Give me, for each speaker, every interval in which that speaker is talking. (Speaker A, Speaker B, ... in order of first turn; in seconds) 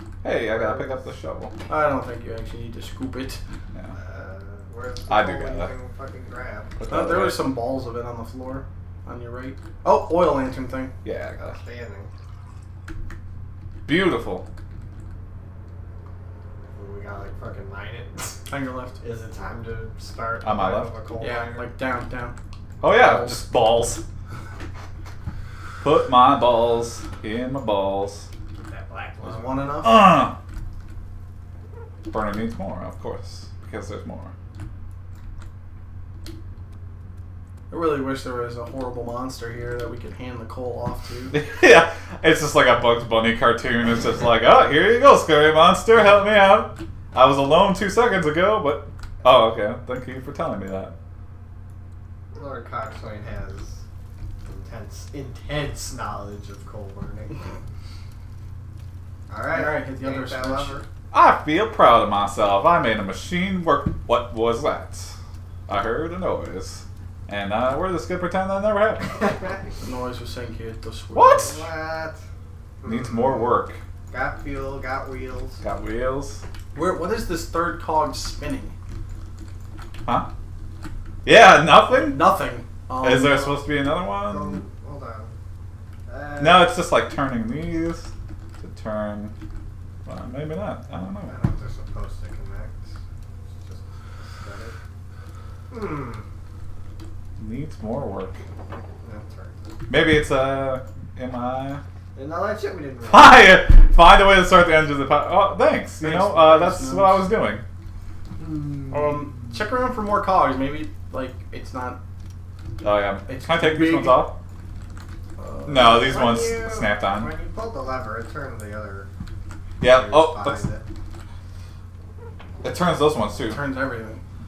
Speaker A: 0.2-1.5, 5.1-5.7, 6.8-7.5, 11.0-11.6, 13.8-14.4, 20.4-20.9, 22.8-24.0, 25.8-28.3, 29.8-30.3, 32.1-34.3, 41.3-50.9, 61.1-65.1, 65.7-69.3, 71.1-71.6, 72.8-73.8, 75.6-76.4, 81.2-82.3, 83.0-84.6, 86.4-88.1, 88.6-89.3, 90.0-91.4, 97.4-98.4, 99.9-101.8, 103.1-107.6, 112.8-114.3, 115.7-117.3, 119.8-120.6, 122.6-123.6
Speaker B: 0.4-1.0, 3.9-6.7, 11.4-12.1, 16.7-18.4, 19.0-21.6, 28.5-29.8, 52.3-53.8, 54.4-57.4, 59.3-60.8, 69.2-69.6, 71.5-72.2, 72.8-73.5, 74.1-75.6, 84.2-85.3, 86.1-86.7, 91.3-92.8, 93.6-94.7, 95.7-96.2, 99.0-99.7, 102.1-103.5, 108.4-109.4, 115.8-119.1, 119.8-120.8
Speaker C: 1.7-3.4, 6.9-10.9, 18.5-19.0, 21.2-22.3, 22.9-23.4, 29.2-30.1, 37.7-41.3, 59.5-60.7, 69.8-71.6, 76.7-78.7, 81.9-83.6, 106.0-107.3, 108.9-112.0, 113.3-114.3, 115.4-115.9, 123.5-124.2